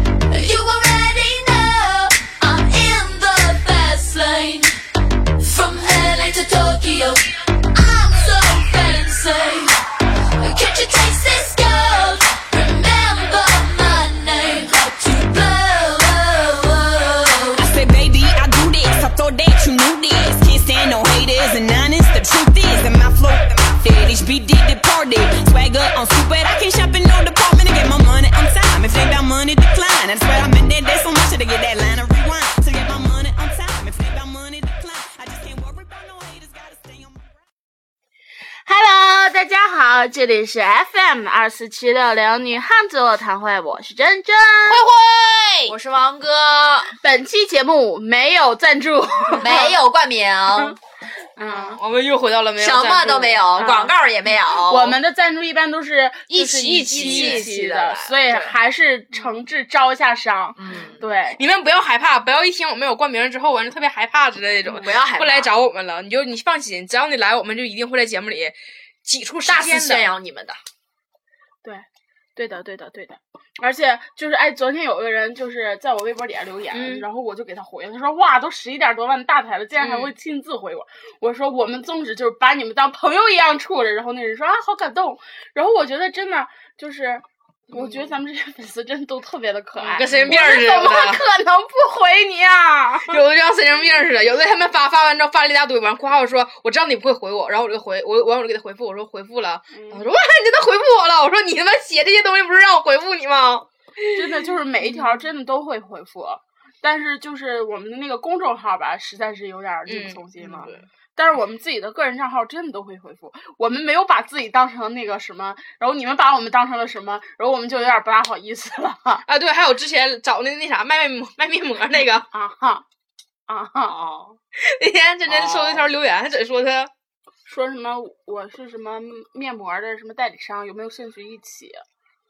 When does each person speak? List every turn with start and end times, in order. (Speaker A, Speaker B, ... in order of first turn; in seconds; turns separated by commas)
Speaker A: 0.3-4.7, Speaker A: 5.4-9.8, Speaker A: 10.4-17.7, Speaker B: 17.5-37.3, Speaker C: 38.7-44.9, Speaker D: 44.7-46.9, Speaker C: 47.0-49.8, Speaker D: 49.3-50.8, Speaker C: 51.4-51.8, Speaker E: 51.4-53.5, Speaker D: 52.6-55.0, Speaker C: 53.6-53.9, Speaker C: 54.5-61.4, Speaker D: 56.3-58.6, Speaker E: 56.6-57.5, Speaker D: 60.6-61.0, Speaker E: 61.4-70.1, Speaker D: 64.7-65.5, Speaker D: 69.5-70.6, Speaker C: 72.4-93.2, Speaker E: 76.7-77.0, Speaker E: 79.8-80.1, Speaker E: 87.7-88.1, Speaker E: 89.8-91.2, Speaker D: 90.1-90.4, Speaker E: 93.0-104.1, Speaker C: 99.7-100.1, Speaker C: 104.2-119.2, Speaker E: 104.8-105.2, Speaker E: 109.9-110.8, Speaker D: 110.4-110.8, Speaker E: 119.2-122.3, Speaker C: 122.3-122.9, Speaker C: 123.5-124.0, Speaker E: 123.9-126.9, Speaker C: 127.5-131.8